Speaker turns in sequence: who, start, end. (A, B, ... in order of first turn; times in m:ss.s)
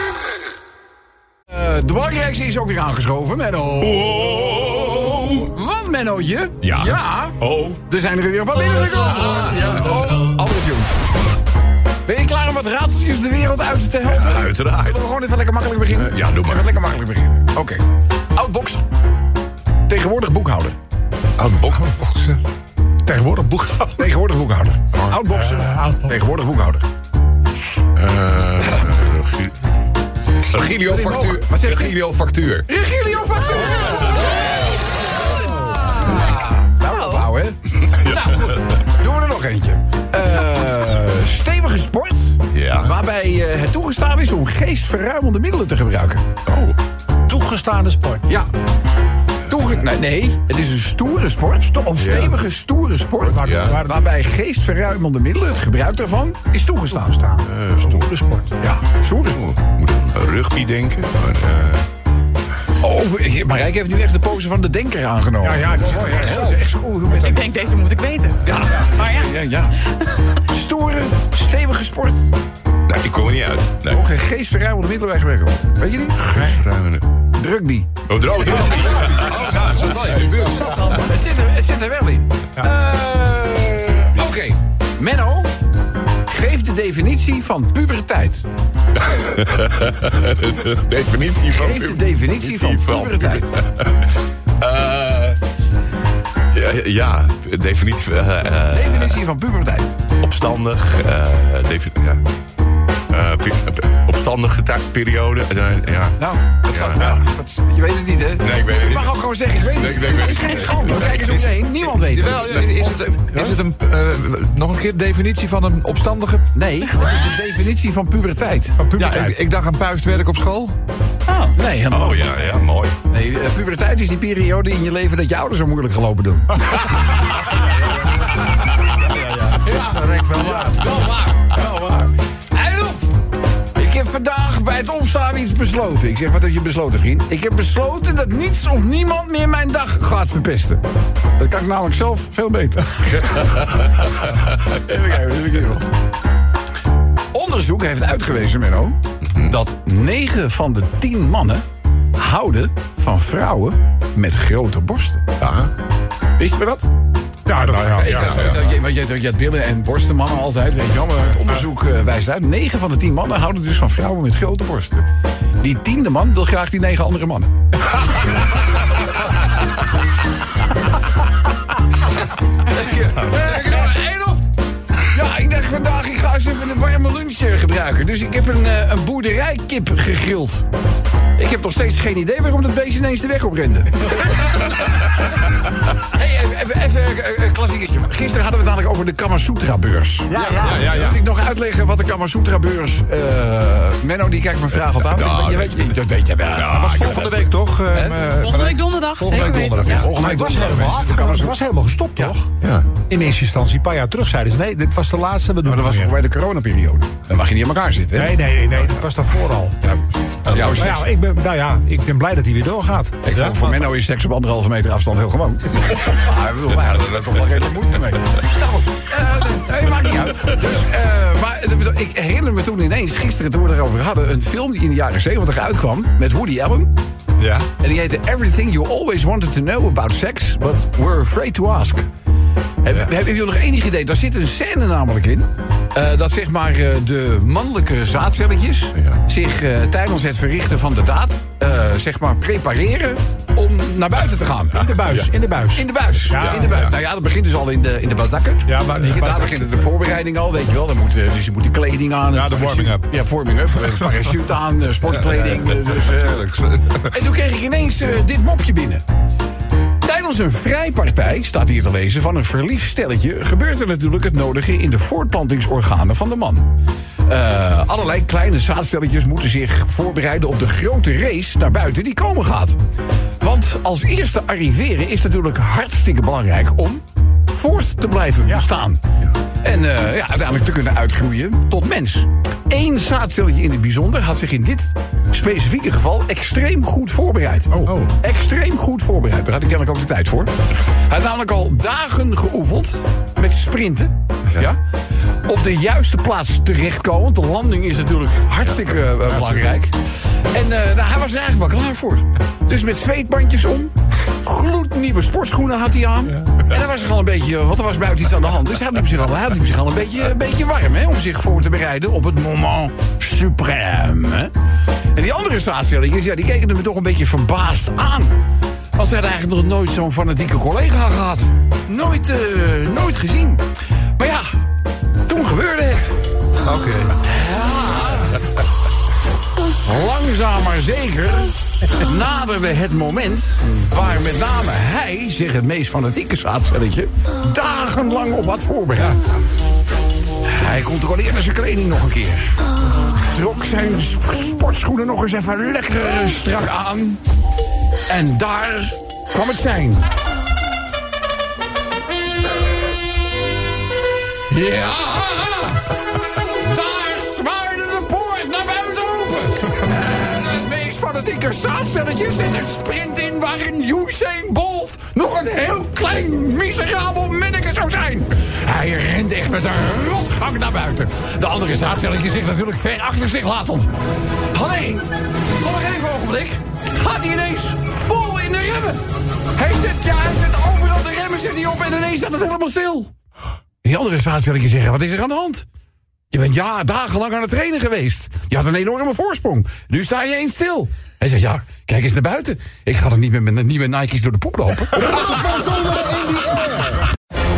0:01.5-0:10.9 A
0:04.0-0:05.4 B
0:06.6-0:07.8 B
0:09.0-0:10.0 B
0:12.1-0:17.8 A
0:14.2-0:15.0 B
0:15.9-0:16.8 B
0:18.4-0:18.8 A
0:19.9-0:20.8 A
0:21.4-0:22.0 B
0:22.0-0:22.4 C
0:23.0-0:24.1 D
0:24.0-0:26.8 A
0:24.9-0:25.2 B
0:25.3-0:26.2 D
0:28.0-0:29.5 B
0:30.4-0:32.7 B
0:30.5-0:32.0 A
0:32.6-0:34.7 A
0:34.0-0:34.3 B
0:35.3-0:46.2 A
0:36.9-0:37.3 E
0:38.0-0:38.5 B
0:42.5-0:42.9 B
0:46.5-0:46.8 B
0:47.3-0:48.3 D
0:49.5-0:57.2 A
0:51.7-0:52.4 D
0:52.0-0:52.3 B
0:53.2-0:54.0 D
0:53.2-0:53.8 B
0:56.9-0:58.5 D
0:57.5-0:58.0 B
0:58.6-0:59.4 A
0:59.3-1:01.8 B
1:02.8-1:07.5 A
1:05.4-1:06.6 D
1:07.2-1:09.3 E
1:08.4-1:12.3 A
1:12.9-1:14.0 B
1:13.9-1:16.6 A
1:16.2-1:17.1 B
1:17.3-1:25.5 A
1:18.1-1:21.0 B
1:19.5-1:19.8 C
1:26.3-1:28.5 A
1:29.0-1:35.4 B
1:31.5-1:33.6 A
1:36.5-1:39.2 B
1:38.7-1:39.9 A
1:40.2-1:42.2 B
1:43.1-1:46.2 B
1:46.2-1:53.4 A
1:46.7-1:47.2 B
1:48.4-1:51.4 B
1:51.2-1:56.5 C
1:52.4-1:52.8 B
1:53.3-1:53.6 D
1:56.5-1:58.8 A
1:58.8-1:59.4 D
1:59.0-2:00.8 C
2:01.3-2:01.5 E
2:01.5-2:02.3 A
2:01.9-2:03.0 B
2:03.1-2:13.2 A
2:09.0-2:10.6 C
2:13.8-2:20.8 A
2:21.4-2:23.8 A
2:24.6-2:25.9 A
2:27.3-2:31.6 A
2:32.2-2:35.2 A
2:35.4-2:35.7 B
2:36.4-2:36.9 A
2:37.5-2:38.6 D
2:37.6-2:45.1 A
2:37.6-2:38.7 B
2:45.6-2:49.1 A
2:52.6-2:54.4 A
2:55.1-3:00.7 A
3:01.4-3:04.6 A
3:06.0-3:18.2 A
3:10.3-3:11.0 D
3:10.3-3:10.8 C
3:10.6-3:11.1 B
3:15.0-3:16.0 B
3:16.5-3:17.7 B
3:16.9-3:20.1 C
3:18.4-3:20.1 E
3:19.2-3:21.6 A
3:20.0-3:22.5 D
3:22.6-3:22.9 B
3:23.1-3:26.2 D
3:25.6-3:28.4 A
3:28.2-3:29.8 D
3:29.8-3:31.1 A
3:30.5-3:33.8 D
3:33.2-3:46.9 A
3:47.4-3:47.7 C
3:47.8-3:52.1 A
3:52.8-4:04.9 A
4:04.8-4:06.7 D
4:05.7-4:19.0 A
4:06.3-4:06.9 B
4:08.7-4:09.9 D
4:12.3-4:13.0 C
4:15.3-4:17.2 C
4:20.0-4:26.7 A
4:27.3-4:32.8 A
4:33.4-4:39.0 A
4:39.6-4:54.8 A
4:47.8-4:48.1 B
4:55.4-5:14.5 A
5:15.1-5:18.4 A
5:19.0-5:23.6 A
5:24.2-5:24.6 A
5:25.3-5:26.2 A
5:26.7-5:27.1 C
5:27.2-5:28.4 A
5:29.8-5:39.2 A
5:40.4-5:47.2 A
5:48.1-5:50.1 A
5:54.5-5:56.0 A
5:56.5-6:23.1 A
6:23.8-6:25.7 A
6:26.3-6:37.0 A
6:35.1-6:36.8 D